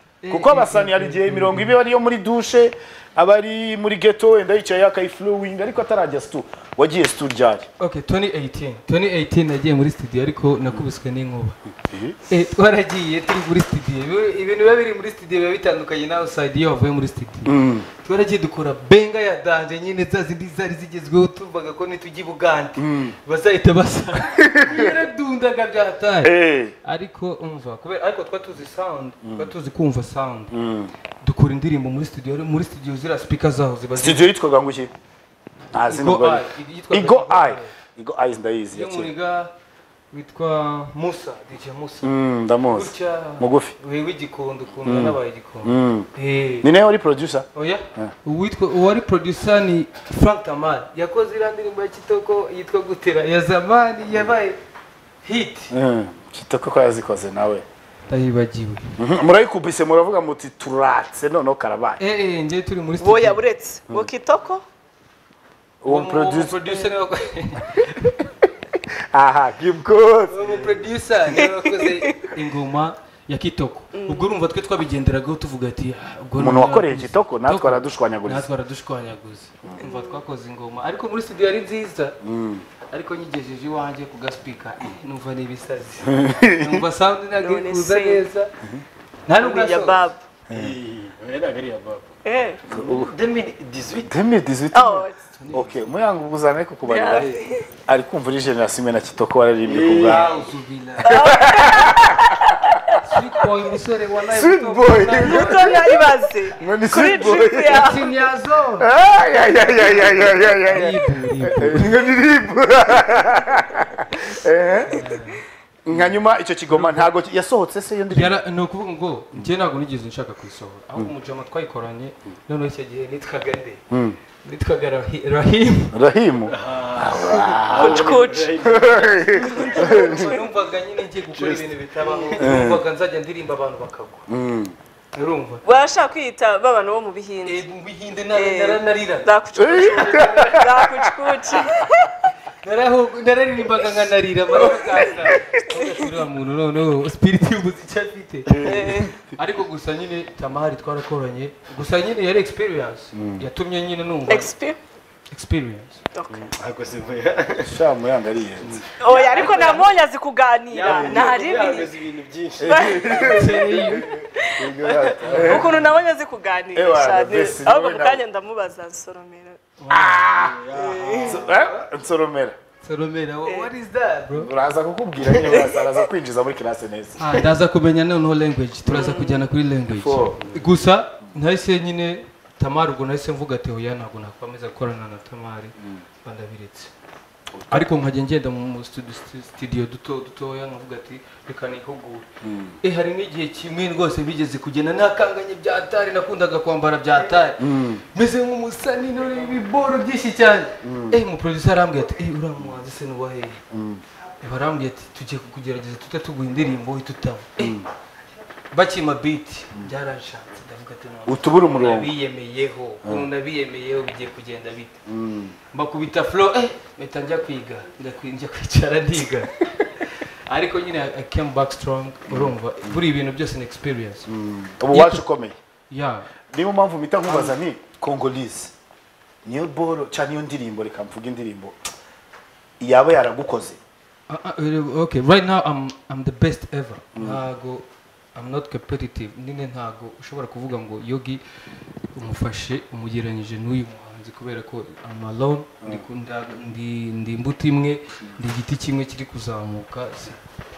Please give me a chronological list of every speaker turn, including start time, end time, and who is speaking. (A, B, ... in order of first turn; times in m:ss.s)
0:00.2-0:01.8 A
0:00.3-0:07.7 B
0:07.8-0:11.6 A
0:11.8-0:12.2 B
0:12.3-0:30.5 A
0:17.4-0:17.9 B
0:22.8-0:23.2 B
0:24.3-0:24.9 B
0:26.2-0:26.7 B
0:29.2-0:29.5 B
0:30.5-0:30.9 B
0:31.2-0:34.3 A
0:34.0-0:34.9 B
0:35.7-0:37.7 A
0:35.7-0:39.1 B
0:38.7-0:39.5 A
0:40.1-0:46.7 A
0:42.0-0:43.7 B
0:44.8-0:46.1 B
0:46.6-0:48.1 B
0:47.5-0:54.6 A
0:55.2-0:55.7 A
0:55.7-0:57.6 B
0:58.1-0:59.0 A
0:59.0-1:02.0 B
1:02.0-1:03.4 A
1:03.0-1:04.6 C
1:05.8-1:06.6 B
1:05.8-1:08.3 A
1:09.1-1:10.4 B
1:10.3-1:22.2 A
1:11.3-1:12.2 C
1:13.9-1:14.3 C
1:16.4-1:18.5 B
1:19.8-1:20.2 C
1:22.2-1:22.6 B
1:22.9-1:28.5 A
1:26.0-1:26.8 B
1:27.4-1:28.2 C
1:29.3-1:30.0 A
1:29.4-1:30.2 C
1:30.5-1:30.8 B
1:30.5-1:32.1 D
1:32.2-1:32.6 C
1:32.7-1:34.1 D
1:32.7-1:33.1 B
1:34.0-1:40.3 B
1:34.7-1:35.2 C
1:35.3-1:35.9 A
1:36.8-1:37.7 C
1:39.6-1:40.4 D
1:40.0-1:41.2 A
1:41.0-1:42.5 C
1:41.0-1:42.9 B
1:42.9-1:46.1 A
1:44.3-1:45.8 B
1:45.2-1:48.0 C
1:46.6-1:47.9 B
1:47.6-1:48.9 A
1:48.8-1:55.1 B
1:49.6-1:52.0 A
1:54.9-1:56.1 A
1:55.8-1:58.4 B
1:56.7-1:57.1 A
1:58.1-2:03.8 A
2:03.9-2:04.2 B
2:04.4-2:06.0 A
2:05.9-2:10.1 B
2:06.5-2:10.4 D
2:07.7-2:08.5 C
2:09.4-2:14.2 A
2:09.6-2:10.4 C
2:11.3-2:12.7 D
2:12.4-2:12.8 B
2:14.3-2:14.7 B
2:15.1-2:15.6 A
2:15.6-2:17.6 C
2:17.4-2:20.6 A
2:18.3-2:22.3 C
2:19.6-2:21.1 B
2:22.6-2:34.5 A
2:24.6-2:25.1 C
2:24.9-2:25.3 B
2:28.6-2:29.1 C
2:28.6-2:29.1 B
2:33.1-2:33.4 B
2:34.2-2:34.8 C
2:35.3-2:36.0 A
2:36.1-2:36.5 C
2:36.3-2:37.8 D
2:37.6-2:38.8 B
2:38.6-2:39.9 D
2:39.0-2:41.9 C
2:39.4-2:39.7 A
2:40.7-2:43.8 D
2:40.8-2:41.3 B
2:42.6-2:45.7 B
2:42.6-2:43.6 C
2:43.2-2:44.1 A
2:44.3-2:44.8 C
2:44.9-2:45.7 D
2:45.2-2:45.9 A
2:45.3-2:49.6 C
2:46.7-2:48.2 B
2:49.8-2:50.4 A
2:49.9-2:50.6 B
2:50.3-2:51.7 D
2:50.7-2:51.4 C
2:51.2-2:52.6 B
2:52.8-2:54.5 A
2:53.4-2:53.7 C
2:54.3-2:57.4 B
2:55.5-2:55.8 C
2:57.2-3:06.9 A
2:58.8-2:59.5 C
2:59.9-3:00.4 B
3:07.5-3:07.9 B
3:07.7-3:12.3 A
3:12.4-3:12.8 B
3:12.8-3:23.6 A
3:17.6-3:18.0 B
3:20.8-3:21.2 B
3:23.7-3:24.0 B
3:24.4-3:27.8 A
3:27.6-3:27.9 B
3:28.7-3:35.0 A
3:31.2-3:32.1 B
3:35.0-3:35.6 B
3:35.7-3:44.3 A
3:42.3-3:43.0 B
3:44.3-3:45.6 B
3:44.9-3:45.2 A
3:45.9-3:46.3 A
3:46.5-3:48.7 B
3:47.2-3:47.6 A
3:49.4-3:51.9 B
3:52.8-3:53.8 B
3:54.3-4:01.4 A
3:57.1-3:57.4 B
4:02.1-4:10.4 A